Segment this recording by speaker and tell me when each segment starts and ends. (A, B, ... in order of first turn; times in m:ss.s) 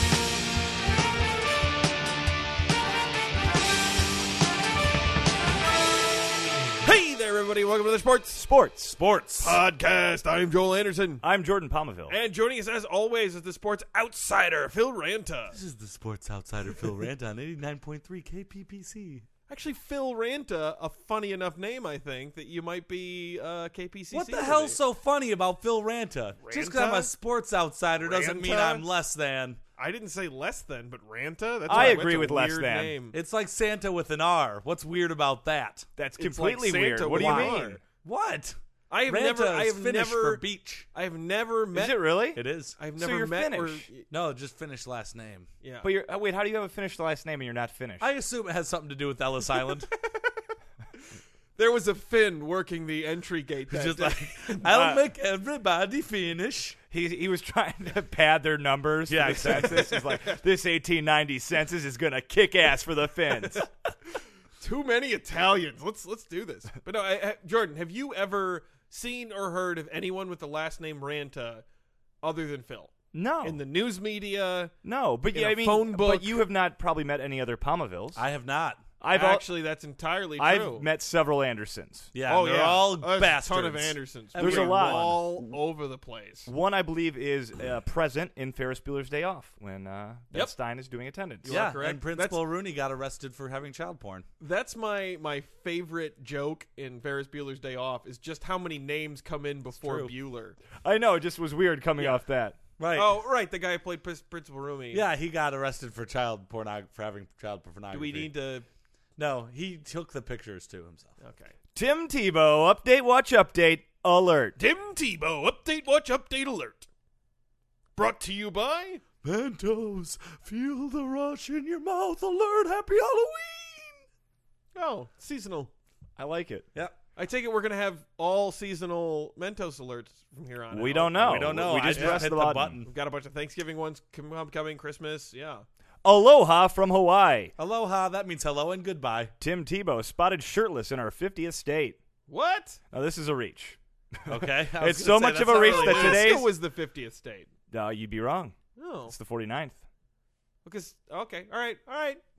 0:06.8-0:08.4 A
0:08.4-0:09.0 B
0:09.0-0:09.6 C
0:09.4-0:11.2 A
0:11.2-0:12.2 B
0:12.1-0:15.6 A
0:15.5-0:19.2 C
0:19.5-0:24.8 A
0:24.1-0:29.6 C
0:26.4-0:27.1 A
0:28.0-0:28.8 A
0:29.8-0:33.1 A
0:31.7-0:32.0 C
0:31.7-0:32.9 B
0:33.1-0:35.8 C
0:36.0-0:37.8 B
0:36.2-0:37.8 A
0:37.1-0:38.6 C
0:38.9-0:42.2 A
0:39.1-0:40.9 C
0:41.7-0:42.4 B
0:42.4-0:42.8 C
0:42.8-0:44.1 A
0:43.0-0:43.9 B
0:44.1-0:45.5 C
0:45.6-0:45.9 A
0:45.8-0:48.1 B
0:48.0-0:49.9 C
0:51.6-0:54.7 A
0:53.7-0:56.8 C
0:54.7-0:55.0 B
0:56.9-1:03.6 B
0:59.1-0:59.8 C
0:59.5-1:00.2 A
1:04.6-1:11.6 A
1:12.2-1:14.7 A
1:13.1-1:13.6 B
1:14.8-1:18.2 B
1:15.3-1:16.4 A
1:18.1-1:18.8 C
1:19.0-1:19.5 B
1:19.1-1:20.8 A
1:20.4-1:22.1 B
1:22.1-1:25.2 C
1:22.2-1:26.5 A
1:24.4-1:25.6 B
1:26.4-1:31.6 B
1:31.4-1:32.4 A
1:31.5-1:34.2 C
1:34.4-1:40.6 A
1:39.8-1:40.1 C
1:40.8-1:42.6 B
1:42.8-1:43.1 C
1:42.9-1:45.0 A
1:44.9-1:48.3 C
1:47.9-1:48.6 A
1:49.2-1:51.1 C
1:51.2-1:51.5 A
1:51.7-1:54.6 B
1:54.6-1:56.8 A
1:58.0-1:59.0 A
1:59.2-2:04.0 C
2:04.7-2:05.7 A
2:06.2-2:06.7 B
2:07.2-2:12.3 A
2:10.7-2:12.8 B
2:11.2-2:12.9 C
2:12.8-2:15.6 A
2:16.0-2:17.5 B
2:17.6-2:19.3 C
2:19.4-2:22.0 B
2:22.3-2:22.8 A
2:22.9-2:26.5 B
2:24.3-2:26.4 C
2:25.3-2:27.5 A
2:27.7-2:28.6 B
2:28.8-2:29.1 A
2:29.1-2:29.8 B
2:30.6-2:32.2 A